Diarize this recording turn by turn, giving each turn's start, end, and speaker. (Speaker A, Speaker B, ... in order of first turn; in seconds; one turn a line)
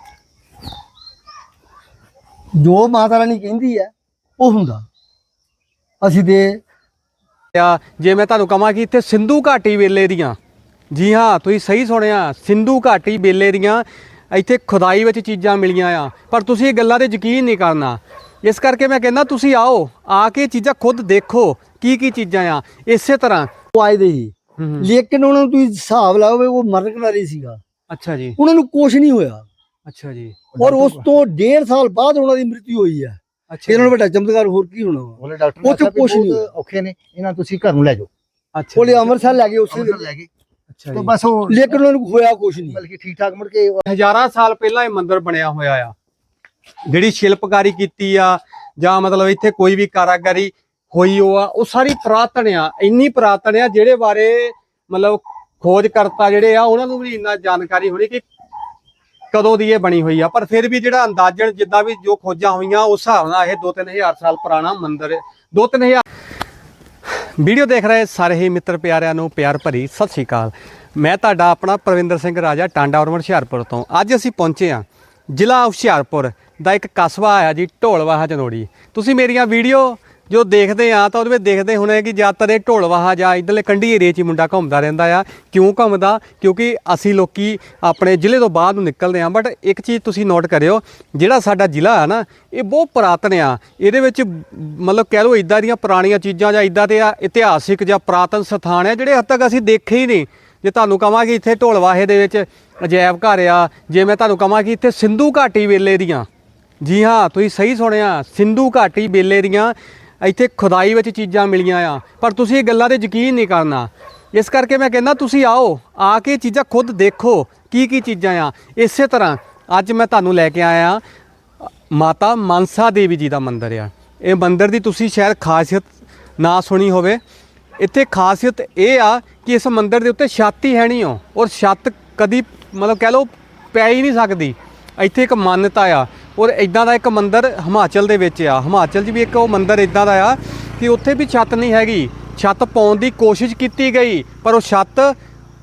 Speaker A: 2.5-4.9
Speaker A: 6.0-6.6
Speaker B: 7.5-10.4
Speaker B: 10.9-23.5
Speaker A: 23.7-27.6
Speaker B: 24.6-24.9
Speaker B: 27.9-28.4
Speaker A: 28.4-29.5
Speaker B: 29.9-30.4
Speaker C: 30.5-31.2
Speaker A: 30.6-36.5
Speaker B: 33.5-33.9
Speaker C: 35.2-38.1
Speaker B: 38.5-39.0
Speaker A: 38.8-40.0
Speaker C: 39.2-40.3
Speaker B: 40.7-41.1
Speaker C: 40.9-41.8
Speaker A: 41.5-42.8
Speaker C: 42.6-43.9
Speaker B: 43.8-45.9
Speaker B: 46.9-58.2
Speaker B: 59.3-66.0
Speaker B: 67.0-106.3
Speaker B: 106.8-121.0
Speaker B: 121.9-127.2
Speaker B: 127.8-145.2